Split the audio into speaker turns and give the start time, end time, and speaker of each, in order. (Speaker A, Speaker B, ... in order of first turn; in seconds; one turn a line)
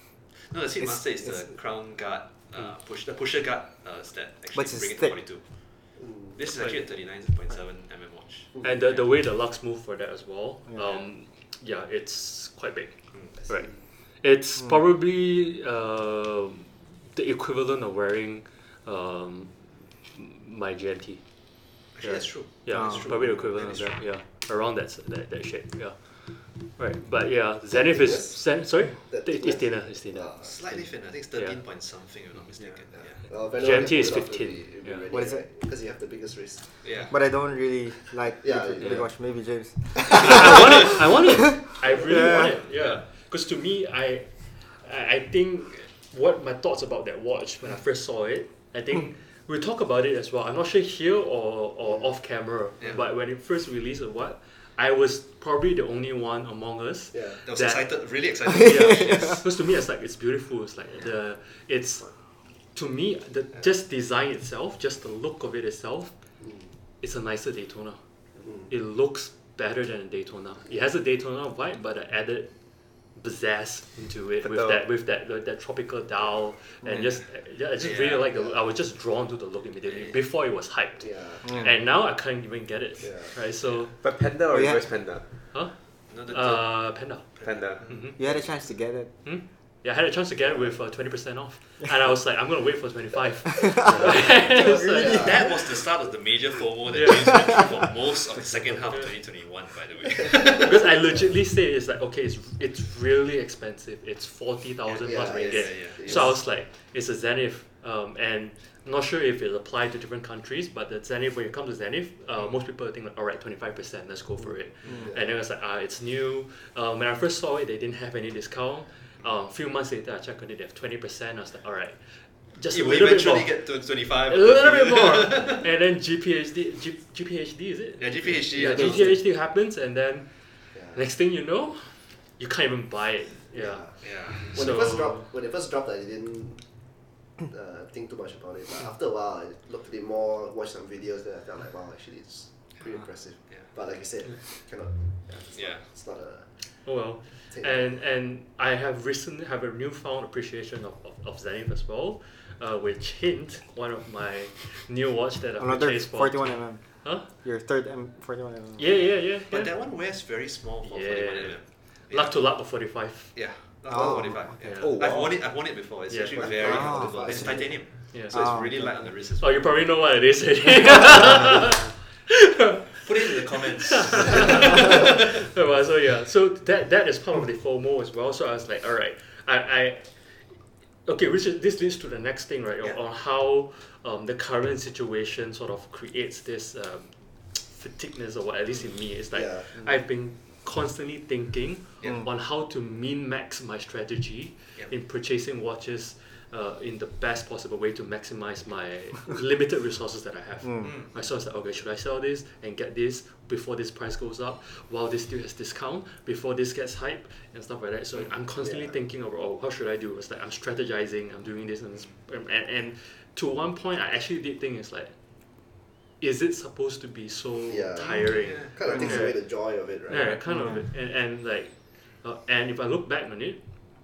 Speaker A: 0.5-9.0
Speaker B: 4.5-5.2
Speaker C: 6.0-6.4
Speaker D: 6.5-6.8
Speaker D: 8.6-30.3
Speaker A: 21.9-24.0
Speaker B: 22.7-23.1
Speaker C: 27.7-30.8
Speaker A: 30.4-33.2
Speaker D: 31.3-31.6
Speaker E: 32.6-32.9
Speaker C: 33.0-36.7
Speaker D: 33.5-35.1
Speaker B: 35.1-35.5
Speaker A: 36.8-37.1
Speaker B: 37.1-42.6
Speaker C: 38.4-39.1
Speaker D: 40.1-66.2
Speaker C: 57.1-57.4
Speaker A: 57.5-59.5
Speaker B: 58.5-59.4
Speaker C: 66.4-66.7
Speaker D: 67.0-68.0
Speaker C: 68.4-68.7
Speaker D: 68.7-72.5
Speaker D: 73.1-83.9
Speaker E: 74.4-74.8
Speaker A: 77.8-78.3
Speaker A: 79.9-80.2
Speaker C: 81.0-81.7
Speaker C: 83.0-83.3
Speaker E: 84.0-85.3
Speaker B: 84.5-84.8
Speaker D: 85.5-88.2
Speaker A: 86.1-88.0
Speaker E: 87.4-88.1
Speaker B: 88.2-89.2
Speaker D: 89.2-95.3
Speaker B: 93.7-95.4
Speaker A: 94.2-100.9
Speaker C: 94.7-95.5
Speaker D: 96.9-97.5
Speaker D: 100.6-135.3
Speaker A: 104.9-106.3
Speaker C: 105.0-106.4
Speaker C: 114.8-115.3
Speaker A: 122.7-125.6
Speaker A: 128.0-129.2
Speaker C: 128.7-128.9
Speaker C: 130.7-131.0
Speaker C: 133.5-136.8
Speaker A: 134.0-134.5
Speaker C: 137.4-146.5
Speaker A: 145.5-145.9
Speaker D: 146.8-157.3
Speaker C: 147.5-148.0
Speaker B: 155.6-158.9
Speaker D: 158.8-159.8
Speaker A: 159.5-162.4
Speaker D: 160.8-163.3
Speaker A: 163.3-169.8
Speaker B: 163.9-164.5
Speaker D: 164.6-165.1
Speaker E: 164.7-165.4
Speaker D: 166.1-166.7
Speaker C: 166.3-167.8
Speaker B: 166.7-167.4
Speaker D: 167.3-168.6
Speaker B: 168.3-168.9
Speaker D: 169.4-180.4
Speaker A: 173.0-175.2
Speaker D: 181.1-215.1
Speaker C: 189.3-189.7
Speaker B: 200.6-200.9
Speaker A: 200.8-201.2
Speaker C: 208.6-208.9
Speaker D: 216.2-223.6
Speaker C: 217.7-220.4
Speaker A: 218.3-219.2
Speaker B: 220.5-220.8